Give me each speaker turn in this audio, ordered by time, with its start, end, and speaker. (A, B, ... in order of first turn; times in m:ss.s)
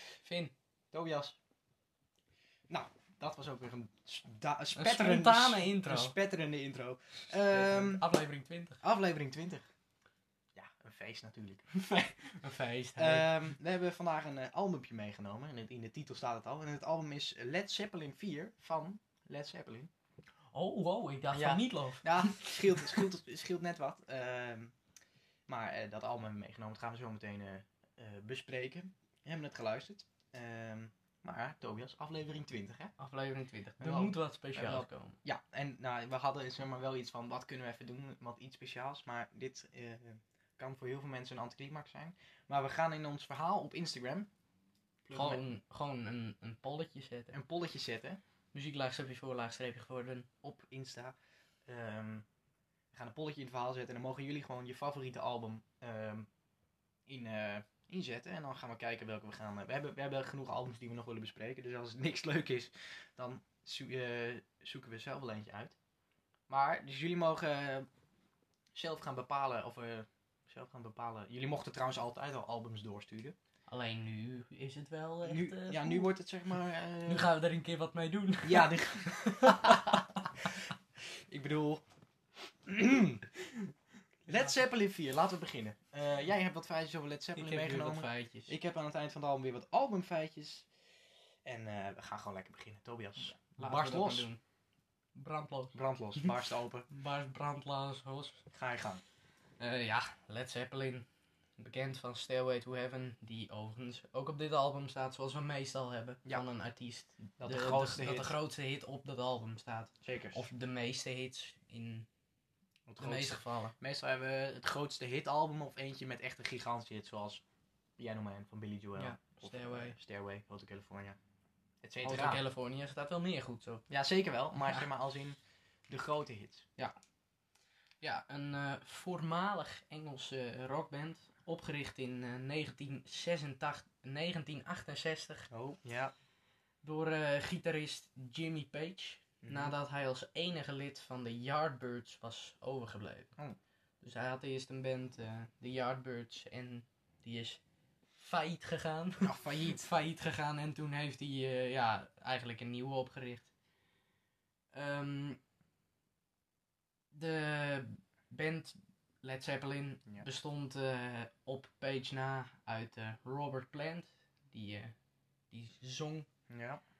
0:00.2-0:00.5 A
0:00.9-0:01.4 B
0:02.7-0:08.0 B
0:04.7-0:06.2 A
0:07.5-0:08.8 A
0:08.8-0:09.7 B
0:10.5-0:11.7 B
0:11.7-0:13.3 A
0:13.0-0:19.9 B
0:20.5-0:23.0 A
0:21.3-0:24.7 B
0:25.5-0:32.9 B
0:33.0-0:35.2 A
0:33.8-0:44.3 B
0:45.0-0:45.4 B
0:45.1-0:47.3 A
0:47.3-0:48.2 B
0:48.5-0:50.3 A
0:50.4-0:51.1 B
0:51.7-0:52.2 B
0:52.9-0:56.3 B
0:57.1-1:05.8 B
1:06.5-1:07.9 B
1:08.7-1:13.3 B
1:13.7-1:16.1 A
1:15.2-1:17.3 B
1:17.0-1:20.2 A
1:18.4-1:20.1 B
1:21.3-1:21.8 B
1:22.6-1:23.3 B
1:24.3-1:30.7 B
1:27.4-1:28.5 A
1:31.4-1:34.3 B
1:33.4-1:34.4 A
1:35.1-1:36.3 A
1:35.7-1:36.9 B
1:36.9-1:38.4 A
1:38.5-1:39.0 B
1:39.6-1:41.1 A
1:41.6-1:52.1 A
1:47.4-1:48.3 B
1:50.0-1:50.4 B
1:52.9-1:57.4 B
1:53.0-1:53.7 A
1:58.0-2:01.2 B
1:59.0-2:00.0 A
2:01.8-2:02.4 B
2:02.0-2:03.8 A
2:03.9-2:05.4 B
2:04.6-2:04.8 A
2:05.9-2:06.7 B
2:08.0-2:15.5 A
2:15.5-2:16.1 B
2:16.8-2:23.3 A
2:19.4-2:19.7 B
2:24.0-2:27.6 A
2:28.1-2:33.5 A
2:29.2-2:29.9 B
2:34.7-2:35.4 A
2:37.1-2:44.9 A
2:45.5-2:46.3 A
2:46.5-2:46.8 B